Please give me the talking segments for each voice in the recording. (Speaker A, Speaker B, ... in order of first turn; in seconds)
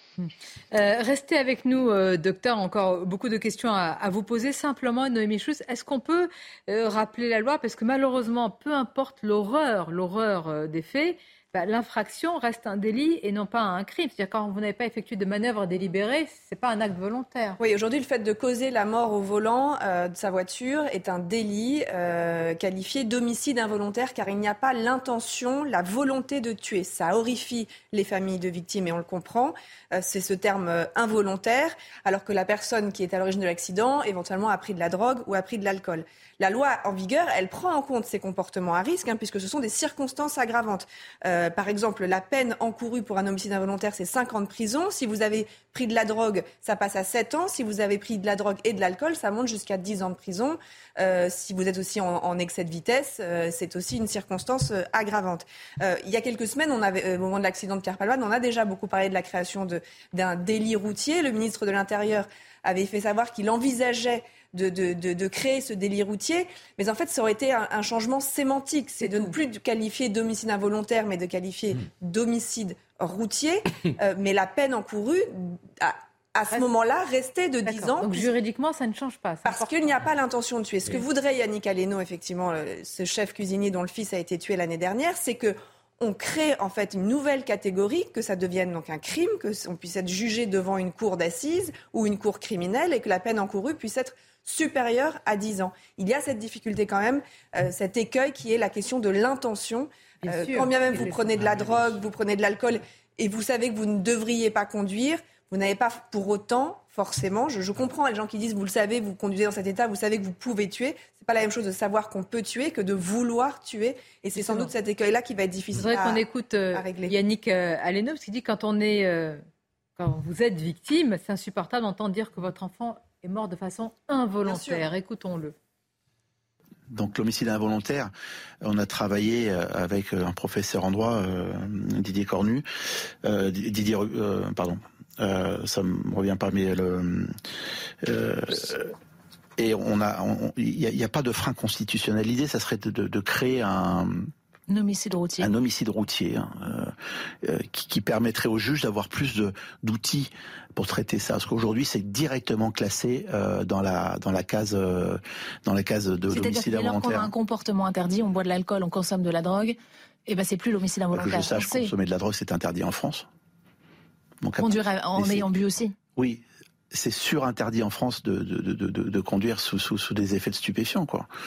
Speaker A: 0.2-17.6, 69.0-69.3, 77.7-79.9, 100.2-102.0, 114.3-114.7, 115.8-119.4, 120.0-125.5
Speaker B: 17.6-78.3, 79.5-117.1, 124.5-124.8
Speaker C: 126.9-132.7, 133.2-137.3, 138.0-138.9, 139.6-144.3, 145.4-157.3, 161.1-163.3, 164.4-165.5, 166.2-171.3
Speaker D: 144.7-145.5, 156.3-161.9, 164.6-165.9